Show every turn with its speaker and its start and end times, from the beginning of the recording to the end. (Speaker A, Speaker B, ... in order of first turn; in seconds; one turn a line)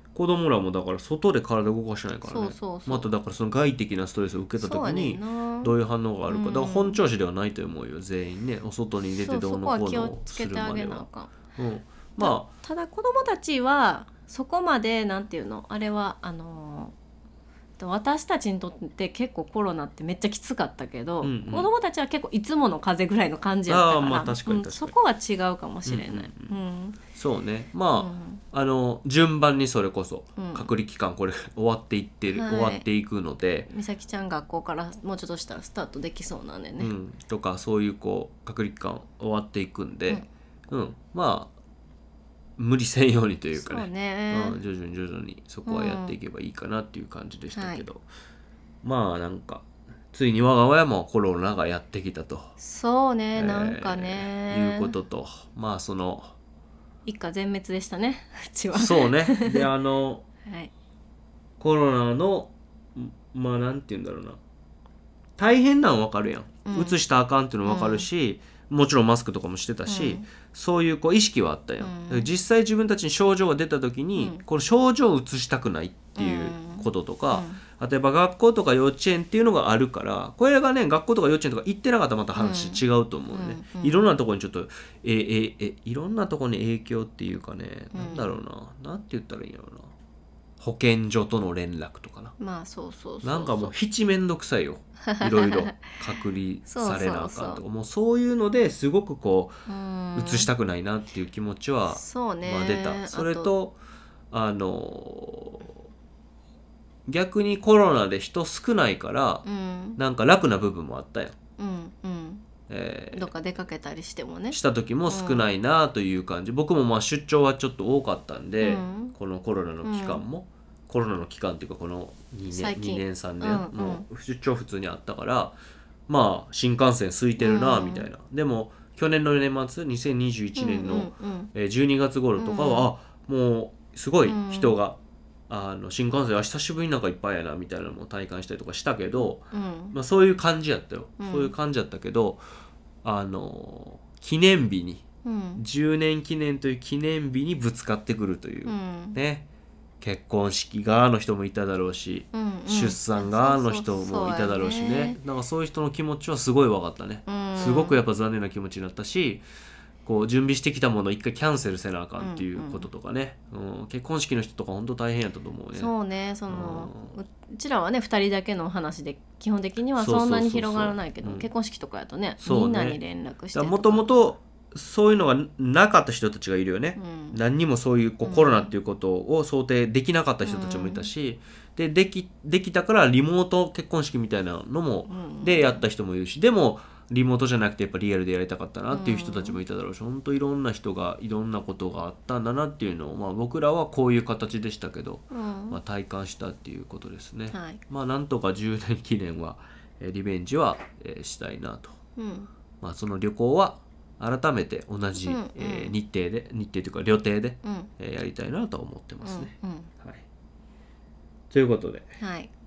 Speaker A: 0.1-12.5
Speaker B: 2.3-3.1
Speaker B: 4.6-5.7
Speaker B: 6.3-7.0
Speaker B: 9.2-11.4
Speaker B: 12.2-16.9
Speaker B: 17.8-27.0
Speaker A: 21.2-21.7
Speaker A: 23.7-25.0
Speaker A: 25.9-26.5
Speaker A: 27.1-33.7
Speaker B: 27.9-28.4
Speaker B: 30.4-30.7
Speaker B: 32.3-32.9
Speaker B: 33.7-36.9
Speaker A: 36.8-41.5
Speaker A: 42.6-48.1
Speaker B: 43.5-44.6
Speaker B: 45.7-46.2
Speaker B: 47.5-47.9
Speaker A: 48.8-52.6
Speaker B: 52.6-55.0
Speaker A: 53.4-56.4
Speaker B: 57.0-59.7
Speaker A: 58.7-60.2
Speaker B: 60.5-60.7
Speaker A: 61.6-64.4
Speaker A: 65.4-89.9
Speaker B: 66.7-67.0
Speaker B: 67.7-68.1
Speaker B: 69.9-70.3
Speaker B: 71.8-72.3
Speaker B: 74.2-74.4
Speaker B: 76.2-77.6
Speaker B: 82.3-84.1
Speaker B: 87.9-88.3
Speaker A: 90.6-92.3
Speaker B: 92.4-93.7
Speaker A: 93.2-99.6
Speaker B: 95.1-95.8
Speaker B: 96.7-97.6
Speaker B: 99.7-100.5
Speaker A: 100.2-103.8
Speaker B: 101.9-103.5
Speaker A: 104.3-105.8
Speaker A: 107.1-109.5
Speaker B: 109.5-110.0
Speaker A: 110.0-111.4
Speaker B: 111.6-112.5
Speaker A: 112.7-113.3
Speaker B: 113.1-115.5
Speaker A: 114.5-135.0
Speaker B: 118.6-119.2
Speaker B: 119.8-120.2
Speaker B: 122.5-124.0
Speaker B: 127.4-128.1
Speaker B: 130.6-131.5
Speaker B: 132.4-132.9
Speaker B: 134.3-134.8
Speaker A: 135.5-142.4
Speaker B: 139.2-140.0
Speaker B: 141.2-141.5
Speaker A: 143.0-145.1
Speaker B: 145.2-145.6
Speaker A: 145.6-149.4
Speaker B: 148.7-149.2
Speaker A: 150.0-159.4
Speaker B: 152.3-155.2
Speaker B: 157.3-158.0
Speaker A: 160.1-165.9
Speaker B: 162.2-162.9
Speaker B: 165.7-174.1
Speaker A: 166.5-167.2
Speaker A: 170.0-171.5
Speaker A: 172.4-173.0
Speaker A: 173.5-202.0
Speaker B: 177.0-177.4
Speaker B: 178.2-178.7
Speaker B: 180.4-181.1
Speaker B: 185.1-185.8
Speaker B: 188.9-189.6
Speaker B: 195.3-195.8
Speaker B: 197.5-197.8
Speaker B: 202.2-202.5
Speaker A: 202.8-210.2
Speaker B: 205.2-205.9
Speaker B: 207.6-207.9
Speaker B: 209.2-209.9
Speaker A: 211.5-212.2
Speaker B: 212.2-212.5